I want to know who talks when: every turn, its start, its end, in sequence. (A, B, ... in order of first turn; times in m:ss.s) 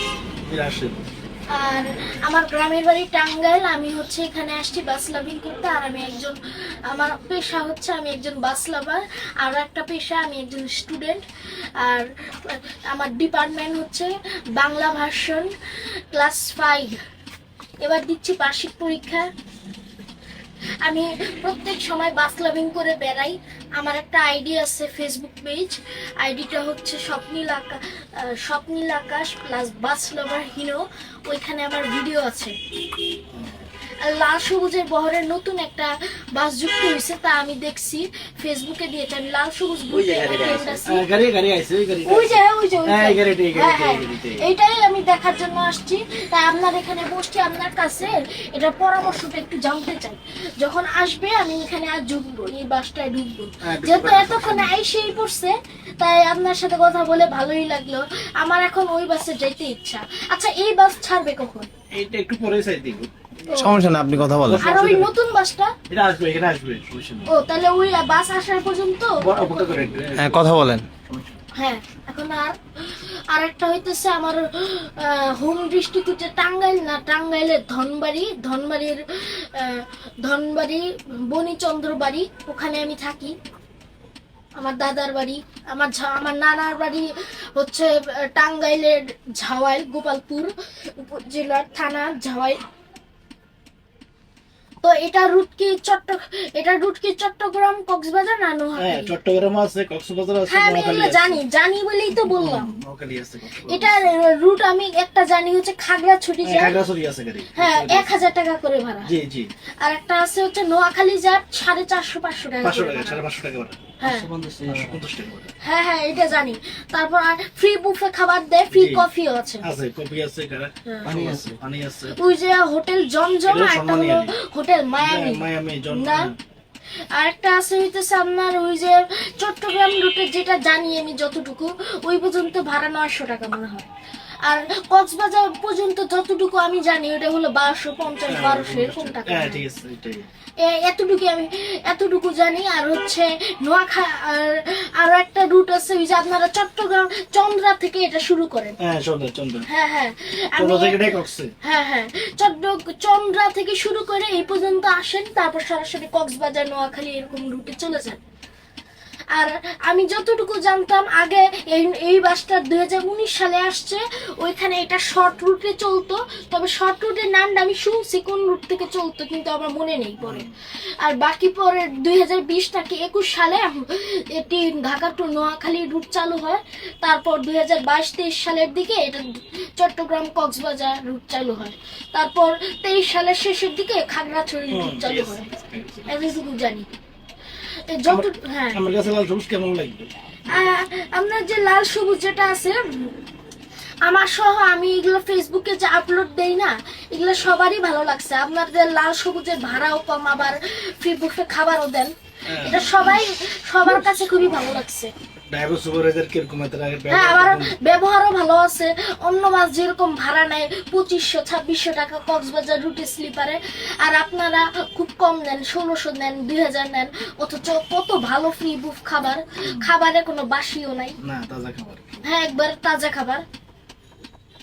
0:00.5-0:01.0 A
0:01.5-0:06.4 B
0:06.9-0:11.2 B
0:11.8-0:15.5 B
0:16.1-0:17.0 B
0:17.8-0:19.2 B
0:20.8-0:32.5 B
0:33.3-0:33.6 A
0:34.0-0:41.0 B
0:39.9-0:40.8 C
0:40.8-0:44.5 A
0:42.0-1:01.7 B
0:53.6-0:54.8 A
1:01.9-1:03.3 A
1:03.5-1:03.8 B
1:03.5-1:04.6 C
1:04.4-1:05.1 A
1:04.6-1:05.7 B
1:05.9-1:07.3 A
1:07.3-1:09.8 B
1:09.2-1:10.4 A
1:10.2-1:10.9 C
1:11.6-1:23.3 B
1:24.6-1:32.6 B
1:34.8-1:39.1 B
1:38.8-1:41.4 A
1:40.5-1:42.7 B
1:42.1-1:44.0 A
1:43.7-1:46.8 B
1:46.4-1:48.2 A
1:47.5-1:49.1 B
1:49.0-1:49.5 A
1:49.8-1:53.2 B
1:52.6-1:53.9 A
1:54.0-1:54.3 B
1:54.0-1:55.0 C
1:54.7-1:55.5 A
1:55.6-1:59.6 B
1:58.7-1:59.1 A
1:59.6-2:02.2 A
2:00.8-2:01.1 B
2:01.0-2:01.6 C
2:02.1-2:06.3 B
2:03.5-2:04.3 A
2:05.0-2:06.3 A
2:07.1-2:13.9 B
2:14.4-2:19.6 B
2:18.3-2:20.2 A
2:20.6-2:28.8 B
2:28.8-2:29.6 A
2:29.7-2:31.0 B
2:30.6-2:31.5 A
2:31.6-2:38.2 B
2:39.3-2:50.5 B
2:50.2-2:50.6 A
2:51.0-2:59.2 B
2:59.8-3:05.5 B
3:04.7-3:06.3 A
3:06.1-3:06.9 B
3:07.6-3:08.8 B
3:08.1-3:10.6 A
3:10.5-3:13.1 B
3:14.0-3:25.1 B
3:22.5-3:23.2 A
3:23.9-3:24.2 A
3:25.5-3:27.7 A
3:27.1-3:41.2 B
3:39.6-3:39.9 A
3:41.2-3:42.2 A
3:42.2-3:43.4 B